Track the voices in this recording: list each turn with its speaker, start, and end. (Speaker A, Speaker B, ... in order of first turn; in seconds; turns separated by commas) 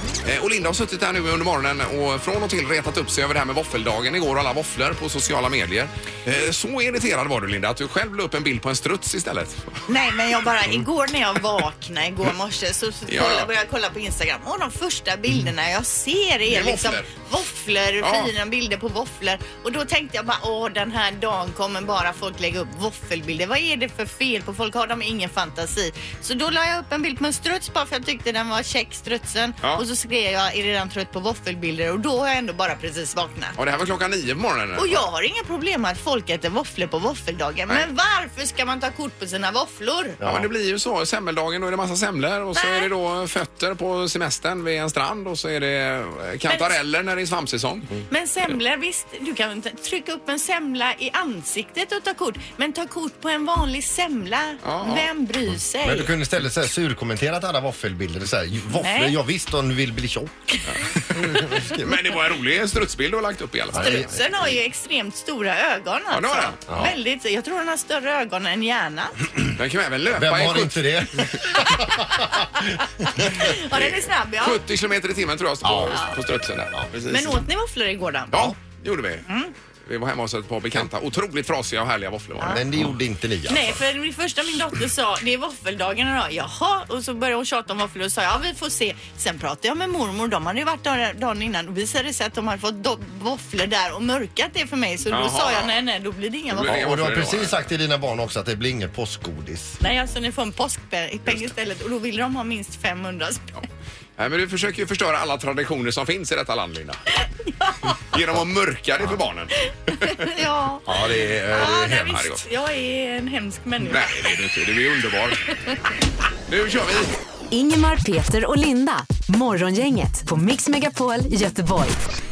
Speaker A: 0.2-9.8, Speaker B: 9.9-33.6, Speaker A: 13.1-13.5, Speaker A: 16.5-17.1, Speaker A: 18.0-18.3, Speaker A: 33.6-35.1, Speaker B: 34.8-40.2, Speaker C: 40.2-40.5, Speaker A: 40.2-47.9, Speaker B: 42.5-42.9, Speaker B: 46.5-46.8, Speaker B: 48.1-56.1, Speaker A: 54.6-55.1, Speaker C: 55.8-60.6, Speaker B: 58.8-59.2, Speaker A: 60.7-64.2, Speaker C: 61.3-62.0, Speaker C: 63.7-64.4, Speaker B: 63.8-69.3, Speaker A: 66.1-66.8, Speaker A: 69.5-71.4, Speaker C: 70.1-72.4, Speaker B: 71.5-74.6, Speaker C: 73.2-73.5, Speaker A: 73.5-77.5, Speaker C: 75.6-76.0, Speaker B: 75.9-76.2, Speaker B: 77.1-78.5, Speaker A: 78.3-79.3, Speaker B: 79.3-79.5, Speaker A: 79.8-82.9, Speaker C: 82.5-83.8, Speaker B: 83.5-96.8, Speaker A: 95.1-95.8, Speaker A: 96.5-97.6, Speaker C: 96.6-99.8, Speaker B: 99.8-103.6, Speaker A: 104.2-107.0, Speaker B: 107.5-108.0, Speaker A: 107.8-110.3, Speaker B: 109.9-110.9, Speaker C: 110.9-112.2, Speaker B: 111.5-114.2, Speaker A: 112.0-112.4, Speaker A: 113.8-115.6, Speaker A: 116.5-117.2, Speaker D: 117.5-122.0